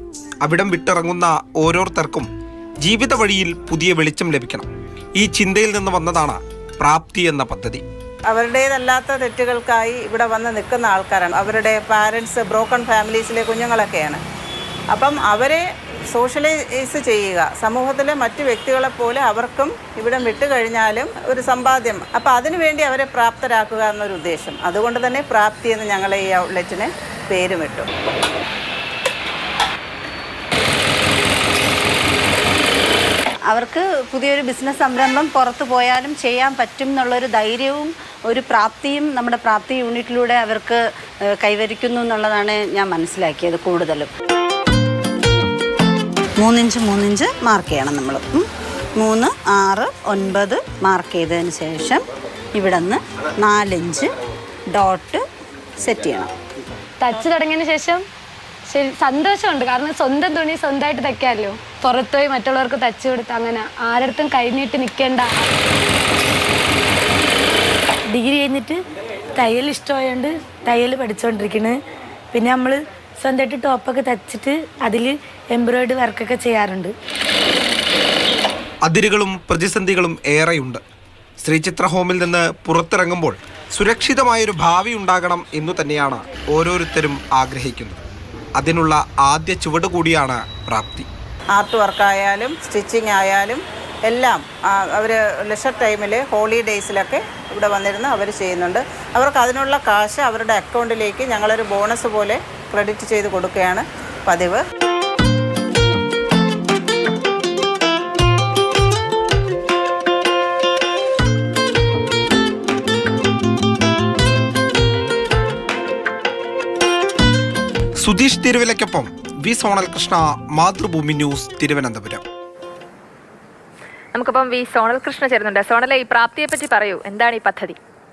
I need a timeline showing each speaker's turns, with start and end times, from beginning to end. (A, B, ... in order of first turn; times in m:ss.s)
0:00.4-0:02.3 A
0:02.8-0:07.8 A
0:08.3-0:14.2 B
0:14.9-0:27.9 B
0:33.5-0:40.8 C
0:41.3-0:44.1 C
0:46.4-0:52.0 C
0:52.6-0:54.1 C
0:54.7-0:55.2 C
0:55.8-0:56.3 C
0:57.0-0:58.0 D
0:58.7-1:05.5 D
1:08.1-1:08.8 E
1:09.4-1:11.8 E
1:12.3-1:16.9 E
1:18.8-1:20.8 A
1:21.4-1:28.0 A
1:28.6-1:31.1 A
1:31.6-1:44.6 B
1:58.0-2:02.2 A
2:04.2-2:07.8 F